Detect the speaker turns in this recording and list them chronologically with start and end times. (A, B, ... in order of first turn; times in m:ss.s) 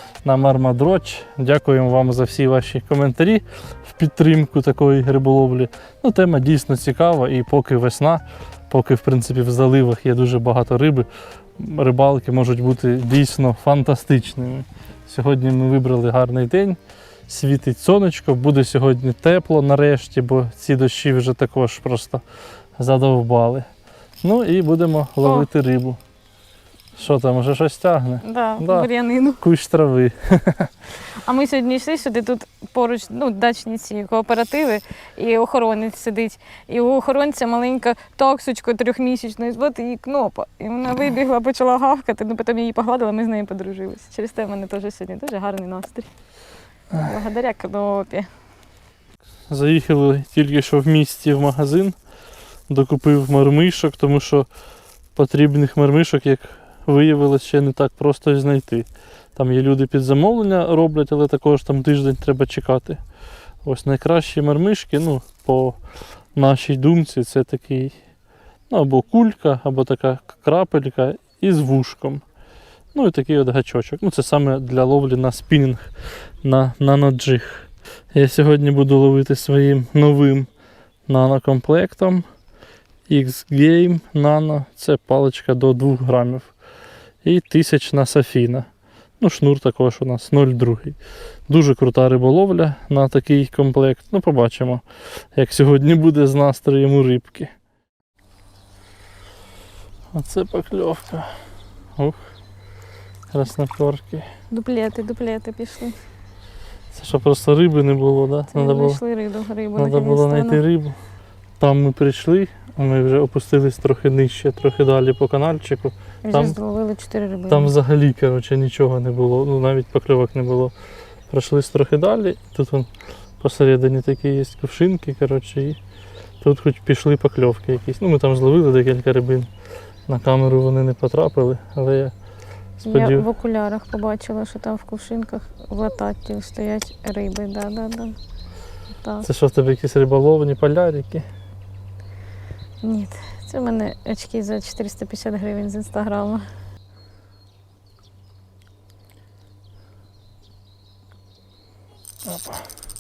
0:00.2-0:22.2 A
0:22.8-0:23.7 A
0:24.2-0:26.0 A
0:25.2-0:25.5 B
0:27.0-0:28.9 A
0:28.2-0:29.4 B
0:29.4-0:30.7 A
0:31.2-0:46.1 B
0:47.0-0:48.3 B
0:49.5-0:52.0 A
0:52.7-0:54.5 A
0:55.2-1:03.0 A
1:03.6-1:05.8 A
1:06.3-1:08.0 A
1:08.7-1:12.2 A
1:12.9-1:20.5 A
1:21.1-1:22.3 A
1:23.1-1:26.5 A
1:27.2-1:28.7 A
1:29.2-1:37.5 A
1:40.1-1:41.4 A
1:42.0-1:42.2 A
1:43.3-1:44.3 A
1:44.5-1:46.0 B
1:46.9-1:49.0 A
1:48.5-1:50.6 B
1:49.8-1:51.0 A
1:51.6-1:56.6 A
1:56.2-1:57.7 B
1:57.5-2:00.8 A
2:01.3-2:05.8 A
2:06.4-2:09.5 A
2:10.1-2:12.1 A
2:12.8-2:13.3 A
2:12.9-2:18.2 B
2:19.2-2:21.3 A
2:22.8-2:26.5 B
2:32.2-2:32.7 A